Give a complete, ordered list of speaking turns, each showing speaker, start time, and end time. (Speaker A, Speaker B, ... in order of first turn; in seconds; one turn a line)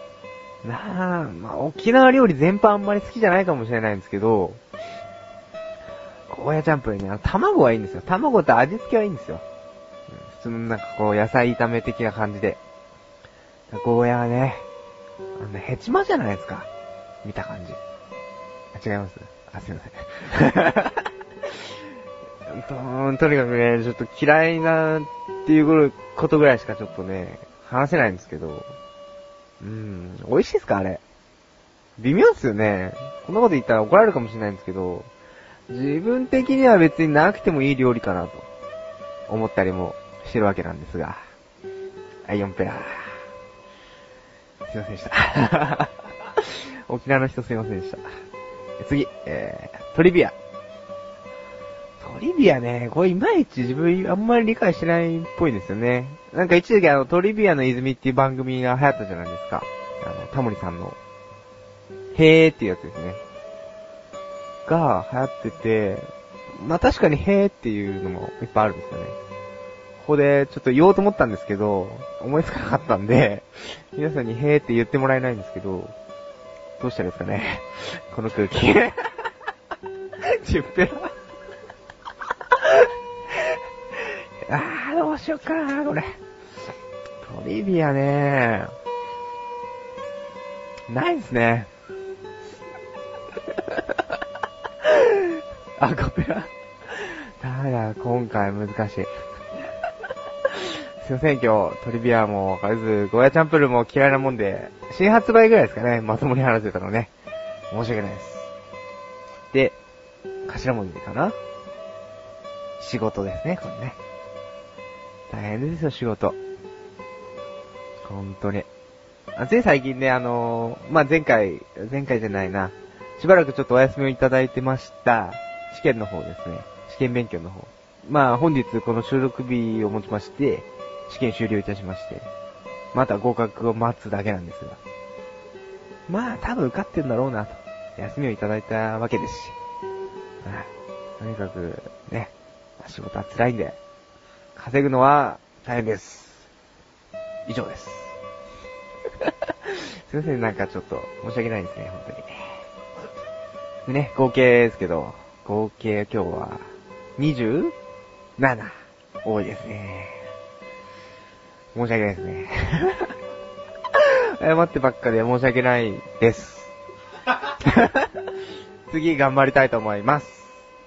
Speaker A: 0.6-4.6
Speaker A: 6.3-9.4
Speaker A: 10.1-12.6
Speaker A: 13.7-14.7
Speaker A: 15.4-16.7
Speaker A: 17.2-17.8
Speaker A: 18.7-21.0
Speaker A: 22.5-28.7
Speaker A: 29.6-31.0
Speaker A: 32.0-35.1
Speaker A: 35.7-38.5
Speaker A: 39.3-41.2
Speaker A: 42.2-43.1
Speaker A: 44.6-48.0
Speaker A: 48.8-50.3
Speaker A: 52.0-61.0
Speaker A: 62.1-63.2
Speaker A: 64.7-69.2
Speaker A: 70.0-75.9
Speaker A: 76.8-79.0
Speaker A: 80.3-81.1
Speaker A: 84.5-86.1
Speaker A: 87.2-88.7
Speaker A: 90.9-91.7
Speaker A: 94.8-96.5
Speaker A: 97.4-99.1
Speaker A: 101.0-107.1
Speaker A: 107.7-108.5
Speaker A: 109.5-109.8
Speaker A: 110.5-111.3
Speaker A: 112.8-114.0
Speaker A: 115.3-116.4
Speaker A: 118.0-118.7
Speaker A: 119.3-132.3
Speaker A: 132.9-134.8
Speaker A: 136.1-139.6
Speaker A: 141.2-143.8
Speaker A: 144.5-146.5
Speaker A: 147.4-148.1
Speaker A: 149.7-152.5
Speaker A: 153.8-156.6
Speaker A: 157.2-157.7
Speaker A: 158.4-160.2
Speaker A: 161.7-163.1
Speaker A: 164.0-166.7
Speaker A: 167.6-168.1
Speaker A: 168.9-170.5